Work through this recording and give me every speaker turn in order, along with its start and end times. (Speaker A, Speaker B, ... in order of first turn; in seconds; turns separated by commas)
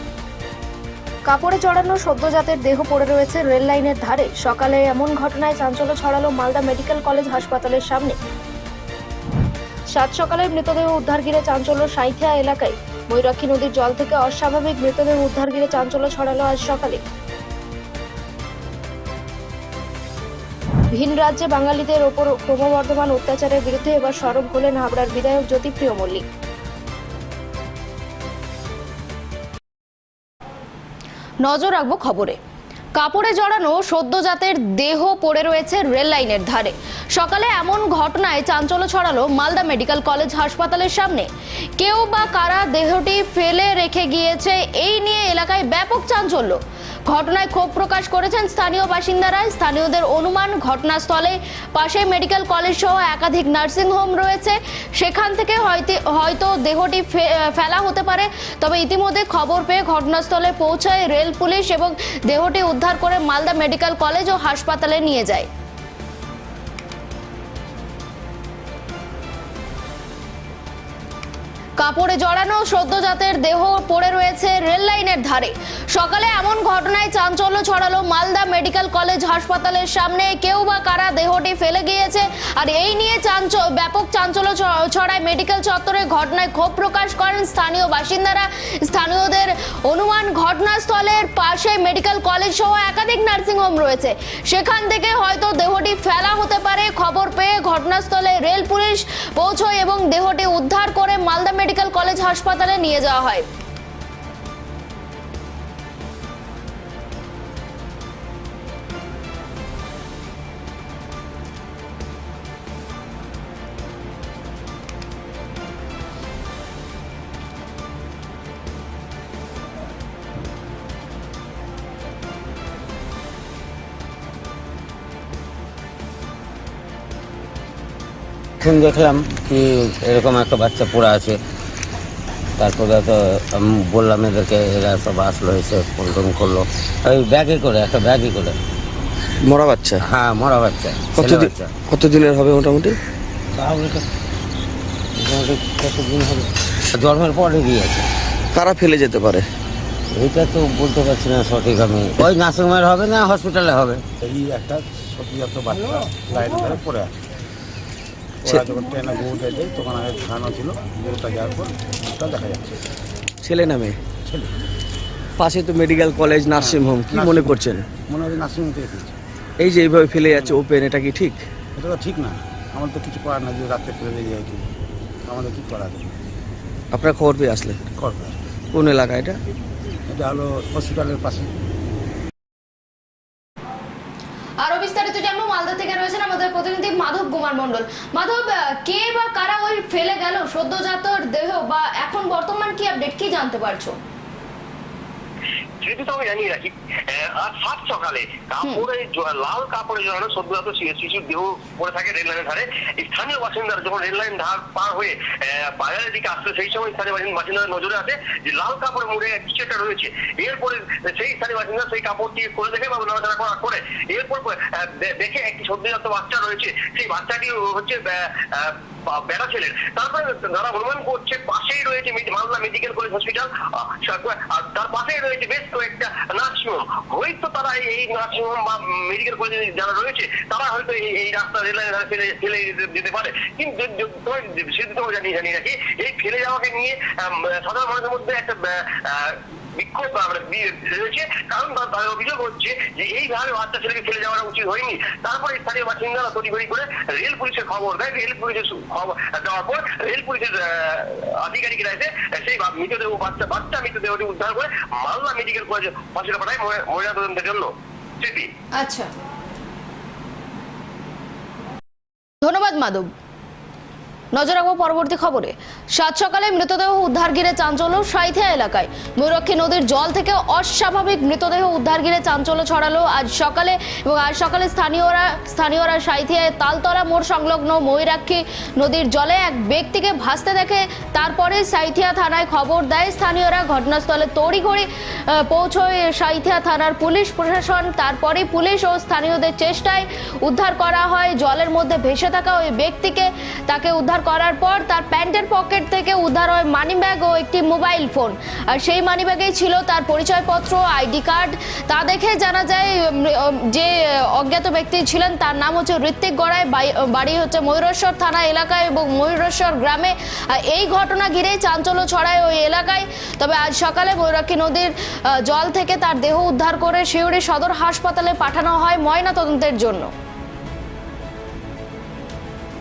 Speaker A: 1.4-8.1, Speaker A: 10.0-11.6, Speaker A: 13.3-17.0, Speaker A: 21.4-26.1, Speaker A: 31.4-32.4, Speaker A: 33.0-65.5, Speaker A: 71.8-103.5, Speaker B: 128.6-131.4, Speaker B: 132.6-138.6, Speaker C: 139.4-140.0, Speaker B: 140.0-141.7, Speaker C: 141.2-143.0, Speaker B: 143.6-144.0, Speaker B: 145.2-148.1, Speaker C: 148.5-149.4, Speaker B: 150.1-154.0, Speaker D: 154.2-157.1, Speaker D: 158.4-162.8, Speaker C: 163.4-164.0, Speaker D: 164.2-164.5, Speaker C: 165.4-167.8, Speaker D: 166.6-169.2, Speaker C: 169.6-171.4, Speaker D: 170.2-170.7, Speaker D: 171.8-174.6, Speaker D: 175.3-176.2, Speaker C: 176.9-177.8, Speaker D: 178.0-178.5, Speaker C: 178.7-179.4, Speaker D: 180.1-181.5, Speaker A: 184.6-194.0, Speaker E: 195.8-205.2, Speaker E: 205.8-218.1, Speaker E: 219.3-237.1, Speaker E: 237.7-238.6, Speaker E: 239.2-257.7, Speaker E: 258.2-258.5, Speaker A: 258.8-259.1, Speaker A: 262.4-263.1, Speaker A: 264.3-320.1